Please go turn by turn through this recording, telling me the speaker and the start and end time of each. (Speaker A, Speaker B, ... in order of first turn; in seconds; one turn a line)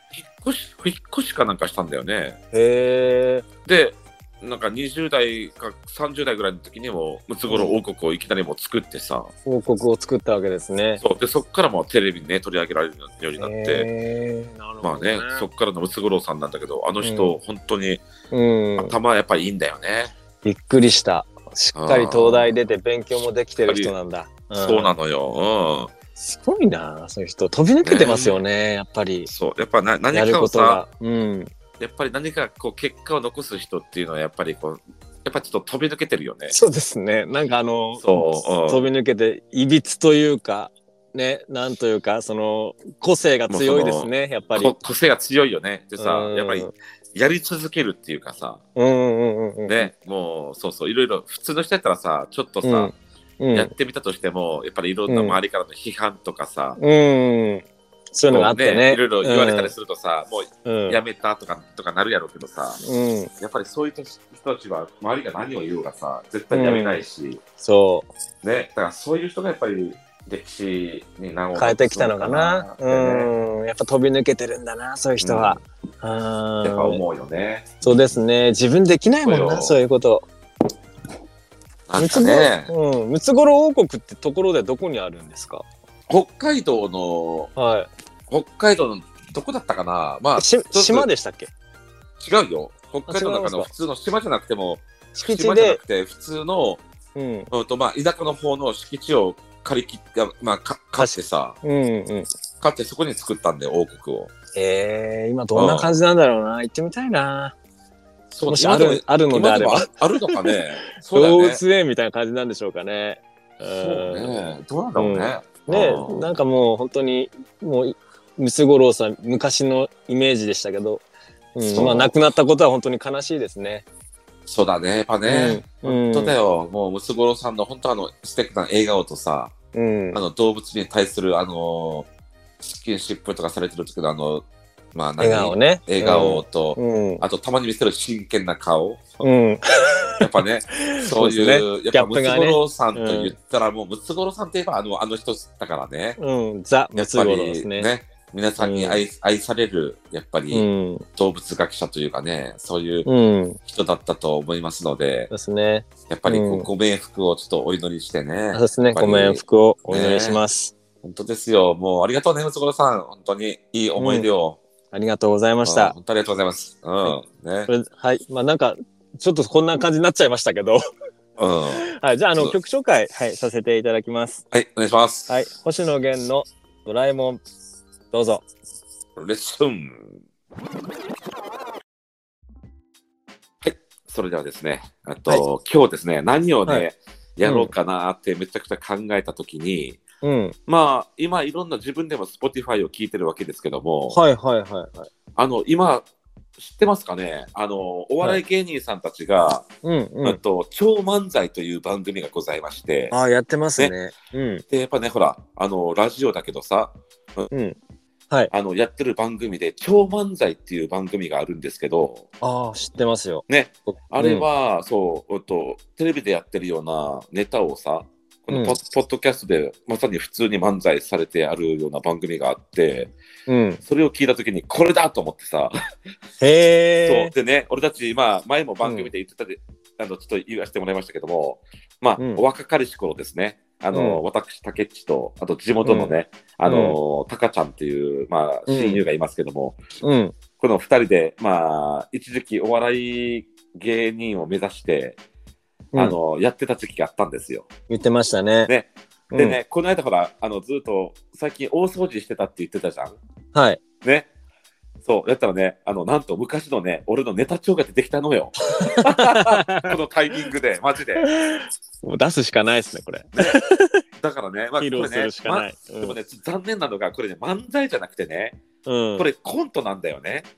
Speaker A: 0.1-2.4
Speaker B: 2.5-3.4
Speaker A: 3.6-9.3
Speaker B: 7.5-7.8
Speaker B: 9.4-11.0
Speaker A: 11.0-13.9
Speaker B: 13.4-15.4
Speaker A: 14.8-18.0
Speaker B: 17.0-17.3
Speaker B: 18.3-18.9
Speaker A: 18.8-20.1
Speaker B: 20.4-24.9
Speaker A: 21.7-22.5
Speaker A: 23.6-23.9
Speaker A: 24.5-25.9
Speaker B: 26.1-29.3
Speaker A: 27.8-28.4
Speaker A: 29.3-30.8
Speaker B: 30.1-31.5
Speaker A: 31.8-36.5
Speaker B: 36.5-44.7
Speaker A: 38.0-38.9
Speaker A: 43.5-48.6
Speaker B: 46.0-46.7
Speaker B: 48.8-49.9
Speaker A: 49.7-52.9
Speaker B: 52.6-53.7
Speaker A: 53.5-56.8
Speaker B: 55.1-55.4
Speaker B: 56.8-59.7
Speaker A: 58.3-62.8
Speaker B: 60.6-61.0
Speaker B: 62.8-63.3
Speaker A: 63.4-67.4
Speaker B: 66.5-67.0
Speaker B: 67.6-68.1
Speaker A: 68.4-73.3
Speaker B: 71.5-77.0
Speaker A: 75.2-75.6
Speaker A: 76.6-77.8
Speaker B: 77.8-80.2
Speaker A: 79.2-79.8
Speaker A: 81.9-82.7
Speaker B: 82.0-85.6
Speaker A: 86.1-87.5
Speaker B: 87.5-87.9
Speaker A: 88.3-91.1
Speaker B: 90.3-91.5
Speaker A: 92.2-96.8
Speaker B: 93.0-93.7
Speaker B: 95.1-95.8
Speaker B: 97.1-97.5
Speaker A: 97.5-101.5
Speaker B: 101.0-102.3
Speaker A: 102.6-104.3
Speaker B: 104.5-107.5
Speaker A: 105.5-105.9
Speaker A: 108.3-111.6
Speaker B: 108.5-110.5
Speaker B: 111.1-114.4
Speaker A: 113.7-116.2
Speaker B: 114.9-121.0
Speaker B: 121.5-123.8
Speaker A: 121.7-122.1
Speaker A: 124.5-129.5
Speaker B: 125.2-126.3
Speaker B: 129.7-130.2
Speaker A: 130.1-132.1
Speaker A: 132.6-139.0
Speaker B: 135.2-137.2
Speaker B: 139.2-143.3
Speaker A: 140.2-146.2
Speaker B: 146.2-147.9
Speaker A: 146.9-150.7
Speaker B: 148.6-149.0
Speaker B: 150.5-151.0
Speaker A: 151.2-153.1
Speaker B: 153.0-153.6
Speaker A: 153.7-155.3
Speaker B: 155.3-156.7
Speaker A: 156.1-160.4
Speaker B: 158.5-160.7
Speaker A: 161.0-164.6
Speaker B: 164.0-164.3
Speaker B: 164.9-165.9
Speaker A: 165.6-167.7
Speaker B: 167.7-170.8
Speaker A: 171.4-171.8
Speaker B: 171.7-174.4
Speaker A: 174.5-175.3
Speaker B: 175.3-177.4
Speaker B: 178.1-178.4
Speaker A: 179.2-180.2
Speaker A: 183.6-190.0
Speaker B: 187.4-187.7
Speaker B: 190.2-190.5
Speaker A: 190.7-194.2
Speaker B: 194.1-195.1
Speaker A: 195.3-196.1
Speaker A: 196.6-199.6
Speaker B: 199.8-200.4
Speaker A: 200.2-203.1
Speaker B: 203.1-204.6
Speaker A: 204.7-207.5
Speaker B: 207.5-207.8
Speaker A: 208.5-212.3
Speaker B: 212.4-214.4
Speaker A: 213.5-223.1
Speaker B: 218.5-218.8
Speaker B: 223.5-223.8
Speaker A: 223.8-225.7
Speaker B: 226.4-227.3
Speaker A: 227.1-239.8
Speaker B: 228.8-229.1
Speaker B: 232.2-232.4
Speaker B: 233.9-234.2
Speaker B: 235.8-237.0
Speaker B: 238.7-239.0
Speaker B: 240.0-240.3
Speaker A: 240.6-245.2
Speaker A: 245.9-247.7
Speaker B: 247.9-248.7
Speaker A: 248.7-253.2
Speaker B: 249.3-249.6
Speaker B: 253.5-253.8
Speaker A: 254.0-254.3
Speaker A: 255.0-261.2
Speaker B: 258.8-260.0
Speaker B: 261.2-264.0
Speaker A: 263.3-263.6
Speaker A: 264.2-268.6
Speaker B: 264.8-266.2
Speaker B: 268.8-269.3
Speaker A: 269.2-270.5